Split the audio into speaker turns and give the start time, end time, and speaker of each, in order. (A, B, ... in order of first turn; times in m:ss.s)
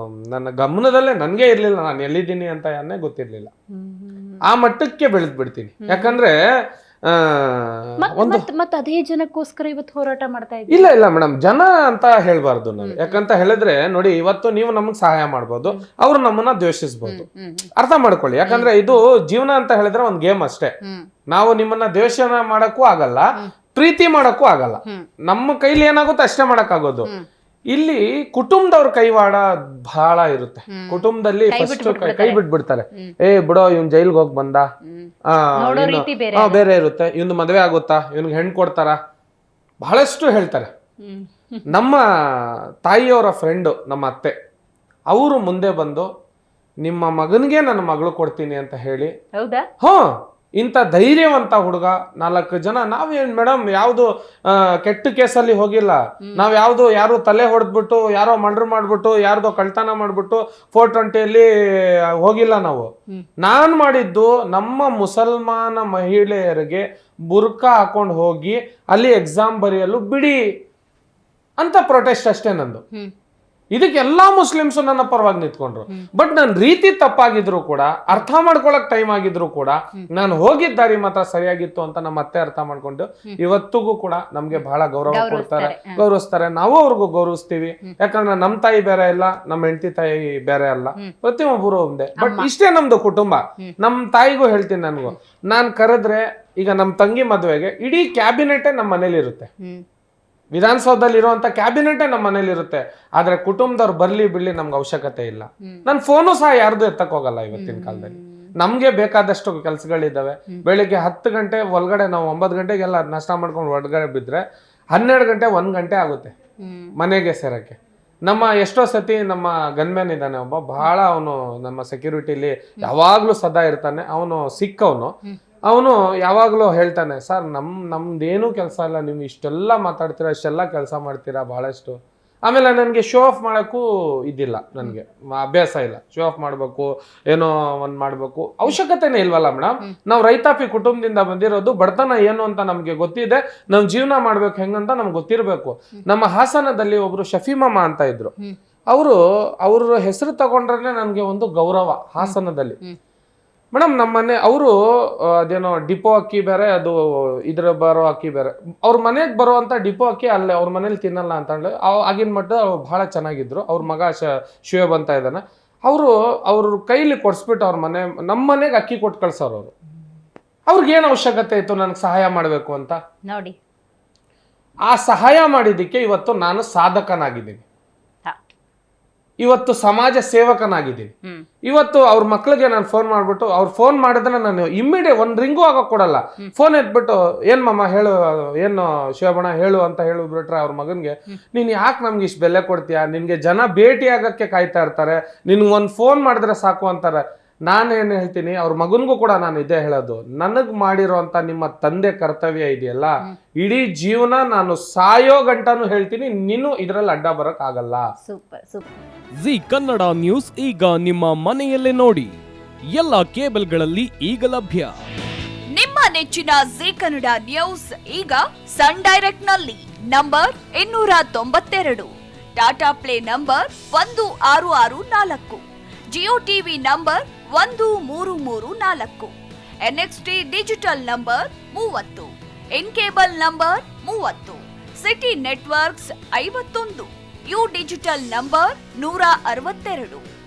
0:00.3-0:03.5 A
0:03.7-0:04.4 B
0:04.5-0:06.4 A
0:05.8-0:06.2 B
0:07.1-0:08.4 A
0:08.0-0:10.9 B
0:10.7-0:17.2 A
0:12.8-0:13.2 B
0:17.0-0:17.7 B
0:17.8-0:20.7 A
0:18.4-0:19.0 B
0:21.3-0:23.2 A
0:23.7-0:27.1 A
0:27.7-0:34.7 A
0:30.7-0:32.4 B
0:34.9-0:36.6 B
0:35.3-0:39.0 A
0:39.8-0:40.7 A
0:41.0-0:41.7 B
0:41.7-0:44.3 A
0:45.1-0:46.1 A
0:46.8-0:49.1 A
0:49.4-0:49.7 B
0:49.8-1:10.4 A
1:11.6-1:12.8 A
1:13.7-1:39.5 A
1:24.6-1:26.0 B
1:32.2-1:32.5 B
1:40.5-1:56.3 A
1:47.5-1:48.5 B
1:56.6-1:56.9 B
1:57.0-2:05.1 A
2:05.7-2:28.3 A
2:28.9-2:32.8 A
2:32.2-2:33.0 B
2:33.7-2:49.7 A
2:50.7-2:53.0 A
2:53.3-2:53.6 B
2:54.9-2:57.6 A
2:59.4-3:01.1 A
3:01.6-3:28.0 A
3:28.2-3:29.0 B
3:29.4-3:32.3 C
3:32.9-3:35.0 C
3:35.7-4:00.2 D